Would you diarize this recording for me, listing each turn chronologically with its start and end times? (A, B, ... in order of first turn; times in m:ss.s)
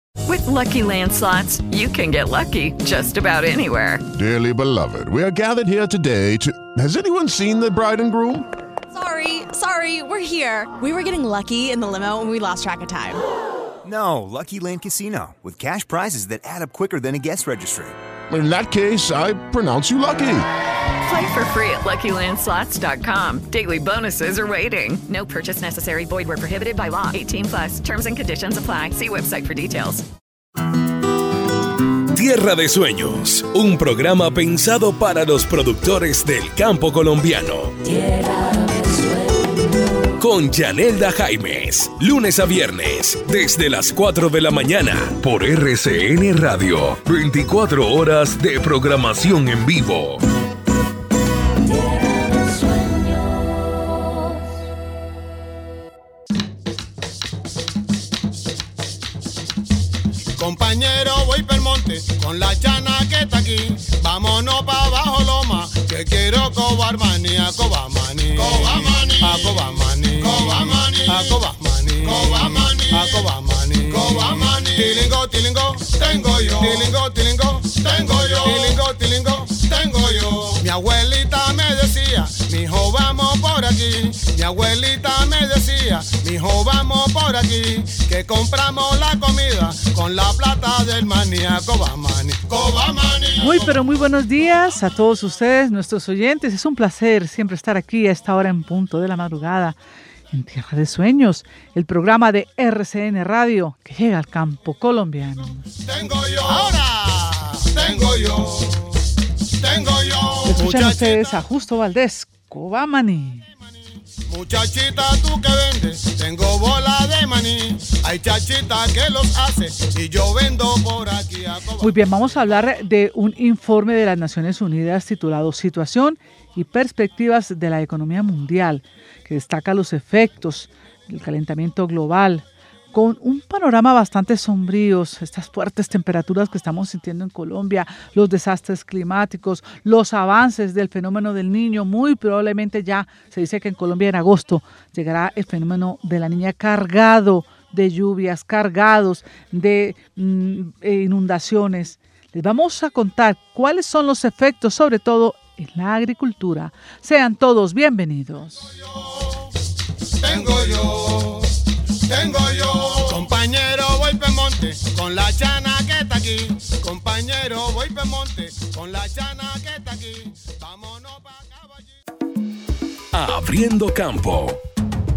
0:00.3-0:04.0 A
0:04.1-0:08.4 B
0:08.9-0:13.2 C
0:13.8-0:17.9 D
0:18.3-0:20.4 B
0:21.1-0:30.0 A
0:32.1-0:37.7 E
0:40.2-0:50.2 E
1:00.4-1:33.8 F
1:33.4-1:39.8 G
1:40.3-1:45.6 G
1:45.8-1:49.0 F
1:49.6-1:51.4 F
1:50.4-1:53.4 G
1:54.3-2:01.9 F
2:01.8-2:38.7 G
2:40.2-2:51.9 F
2:53.1-2:54.6 E